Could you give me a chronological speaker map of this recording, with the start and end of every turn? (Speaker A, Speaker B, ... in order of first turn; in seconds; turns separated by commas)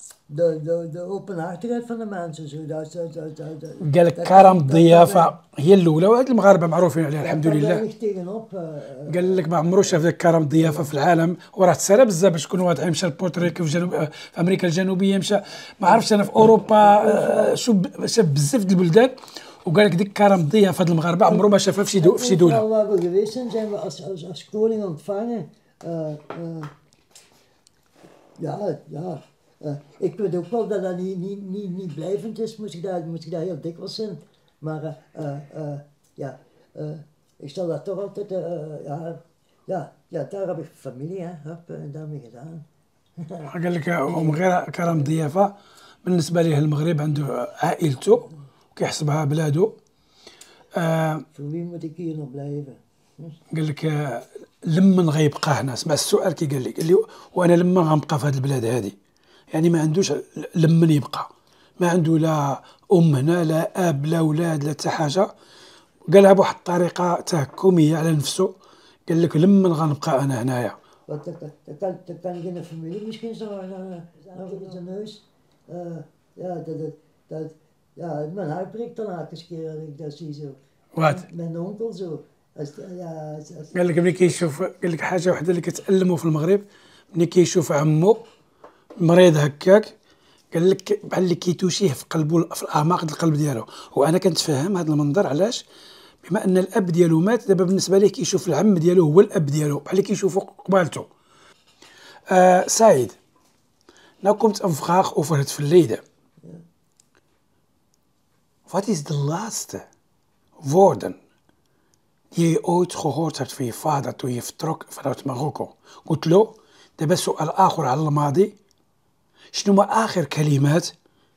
Speaker A: 0.3-5.3, Speaker B: 3.8-7.8, Speaker A: 7.2-9.5, Speaker B: 9.1-22.6, Speaker A: 10.5-10.9, Speaker A: 15.8-16.1, Speaker A: 16.6-17.6, Speaker A: 21.2-26.7, Speaker A: 28.4-42.6, Speaker A: 43.2-43.5, Speaker B: 43.5-49.7, Speaker A: 44.0-45.1, Speaker B: 50.8-51.2, Speaker A: 51.3-53.4, Speaker B: 53.5-58.9, Speaker B: 59.5-65.3, Speaker B: 66.1-68.5, Speaker B: 69.1-70.7, Speaker A: 71.1-84.5, Speaker B: 80.9-81.3, Speaker B: 83.7-88.2, Speaker B: 89.0-89.9, Speaker B: 90.5-95.6, Speaker B: 96.2-101.1, Speaker B: 102.3-103.2, Speaker B: 104.2-106.0, Speaker B: 108.7-109.8, Speaker B: 110.6-111.2, Speaker B: 112.3-118.5, Speaker B: 119.5-120.9